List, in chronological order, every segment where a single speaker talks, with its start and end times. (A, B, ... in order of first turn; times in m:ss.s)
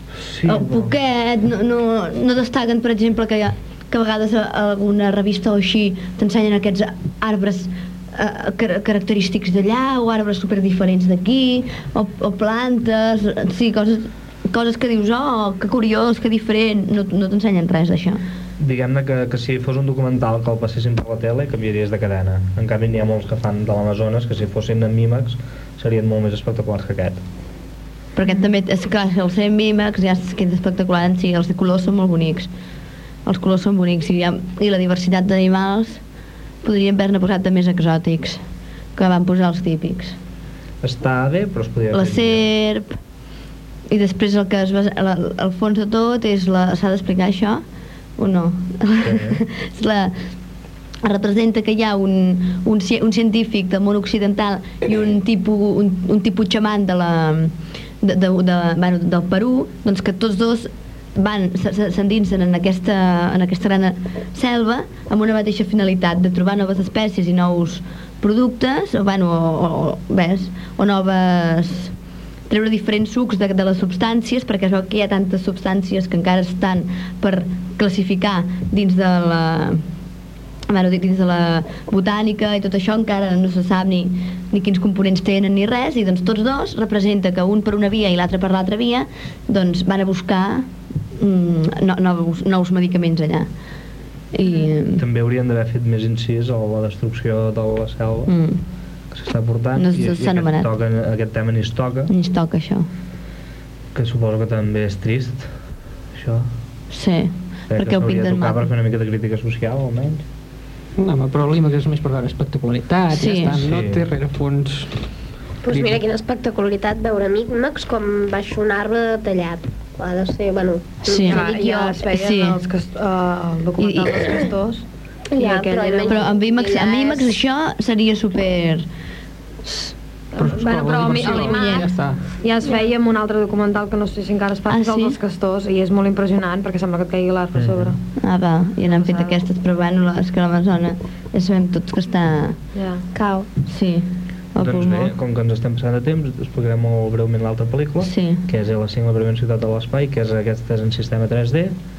0:00.2-0:00.9 A
0:00.5-0:18.2 B
0:18.6-0:27.2 A
0:28.2-0:32.5 B
0:33.2-0:36.0 B
0:36.6-0:38.4 B
0:39.0-0:40.2 B
0:40.8-0:42.4 A
0:41.9-0:42.9 B
0:43.9-0:47.6 B
0:48.2-0:50.2 B
0:49.0-0:49.4 A
0:51.0-1:11.9 B
1:12.5-1:19.8 B
1:20.7-1:33.5 B
1:34.3-1:35.1 B
1:35.0-1:38.3 A
1:38.3-1:38.6 B
1:39.1-1:42.1 A
1:39.8-1:40.7 B
1:42.1-1:42.9 B
1:44.0-1:45.5 A
1:46.1-1:46.5 A
1:46.9-1:48.7 B
1:47.7-1:50.2 A
1:51.0-1:54.9 C
1:53.1-1:53.6 B
1:53.6-1:54.0 A
1:55.6-2:01.9 D
1:55.7-1:56.0 C
2:01.1-2:02.6 B
2:01.1-2:06.2 E
2:03.8-2:04.5 B
2:05.3-2:07.3 D
2:06.1-2:08.9 B
2:10.4-2:11.9 E
2:10.4-2:12.2 C
2:10.6-2:11.9 D
2:12.4-2:18.0 E
2:14.7-2:15.2 B
2:17.6-2:18.0 A
2:18.2-2:22.6 B
2:18.9-2:19.4 E
2:22.8-2:23.1 E
2:23.1-2:23.5 D
2:23.6-2:25.1 B
2:24.6-2:31.8 A
2:28.0-2:28.4 B